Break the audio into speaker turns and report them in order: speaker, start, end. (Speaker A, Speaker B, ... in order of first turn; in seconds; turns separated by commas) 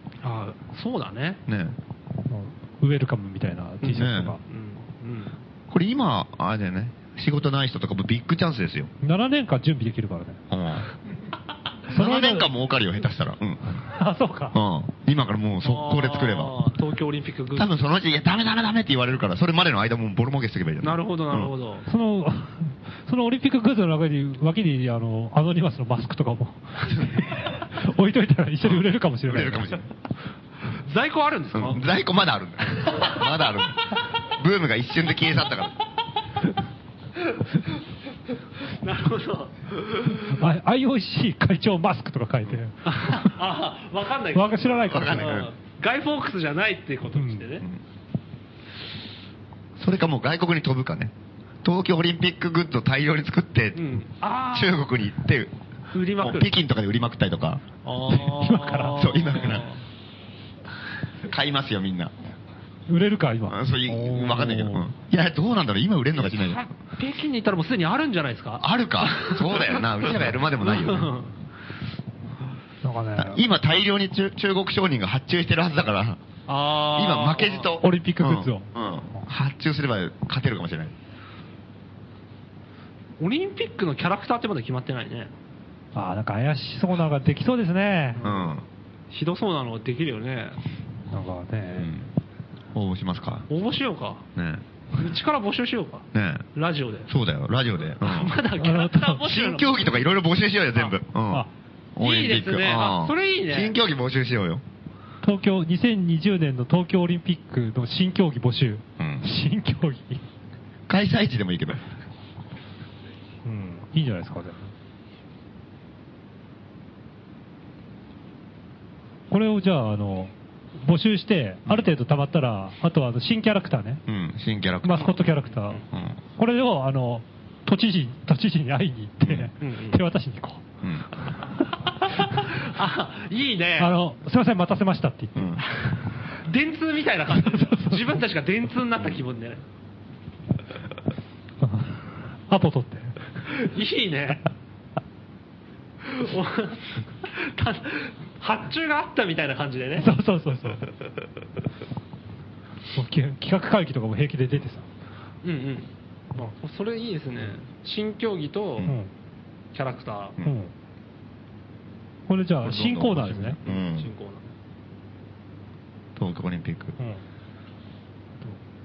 Speaker A: 0.2-1.4, Speaker B: 1.5-1.8, Speaker C: 2.3-4.4, Speaker A: 3.8-5.4, Speaker B: 3.9-4.3, Speaker B: 5.7-8.9, Speaker C: 9.0-10.4, Speaker B: 10.5-10.9, Speaker B: 11.9-13.6, Speaker C: 11.9-12.5, Speaker C: 13.9-14.6, Speaker B: 14.5-16.6, Speaker A: 15.6-17.7, Speaker B: 17.5-21.5, Speaker A: 20.8-21.9, Speaker C: 21.9-29.8, Speaker B: 28.6-29.9, Speaker A: 30.9-31.9, Speaker B: 31.5-35.7, Speaker A: 32.8-33.1, Speaker A: 38.7-40.1, Speaker C: 40.2-43.4, Speaker A: 42.9-47.6, Speaker C: 44.4-45.3, Speaker B: 44.9-45.5, Speaker C: 47.1-47.4, Speaker B: 49.8-51.1, Speaker B: 51.6-53.9, Speaker A: 53.8-54.9, Speaker B: 54.5-55.5, Speaker A: 55.9-56.5, Speaker B: 56.2-57.6, Speaker A: 57.9-59.8, Speaker C: 58.1-59.0, Speaker B: 58.9-59.7, Speaker B: 61.2-62.1, Speaker C: 62.9-64.9, Speaker B: 63.5-66.6, Speaker A: 66.2-71.3, Speaker B: 68.6-71.1, Speaker C: 72.8-73.4, Speaker B: 73.2-76.2, Speaker A: 76.5-77.7, Speaker B: 76.9-80.9, Speaker C: 77.8-79.2, Speaker A: 83.2-85.3, Speaker C: 85.9-88.2, Speaker A: 88.2-88.5, Speaker B: 88.2-88.6, Speaker A: 89.1-90.6, Speaker C: 91.1-91.9, Speaker B: 91.7-92.1, Speaker B: 92.7-93.5, Speaker A: 93.5-94.2, Speaker B: 94.4-94.6, Speaker A: 94.9-97.1, Speaker B: 96.1-96.5, Speaker B: 97.1-98.3, Speaker A: 98.0-100.1, Speaker C: 98.6-99.2, Speaker B: 99.2-104.6, Speaker A: 102.0-103.7, Speaker C: 105.2-110.2, Speaker B: 109.0-109.2, Speaker B: 110.9-111.8, Speaker C: 113.4-114.7, Speaker C: 119.3-124.0, Speaker B: 121.7-121.9, Speaker B: 124.1-125.3, Speaker C: 124.8-125.8, Speaker A: 125.5-125.8, Speaker B: 125.9-126.2, Speaker C: 126.4-130.6, Speaker B: 129.2-129.5, Speaker A: 129.6-130.0, Speaker B: 130.8-131.1, Speaker C: 132.0-132.5, Speaker A: 132.2-133.9, Speaker C: 133.8-135.7, Speaker B: 135.3-135.6, Speaker A: 136.3-139.6, Speaker C: 137.4-138.2, Speaker C: 141.6-143.2, Speaker A: 143.5-144.4, Speaker A: 146.0-150.1, Speaker C: 150.0-150.8, Speaker C: 152.9-154.9, Speaker A: 155.4-158.9, Speaker C: 158.8-159.1, Speaker A: 159.7-160.4, Speaker C: 160.4-160.7, Speaker C: 162.3-163.6, Speaker B: 162.6-164.1, Speaker A: 163.7-164.5, Speaker B: 166.2-166.9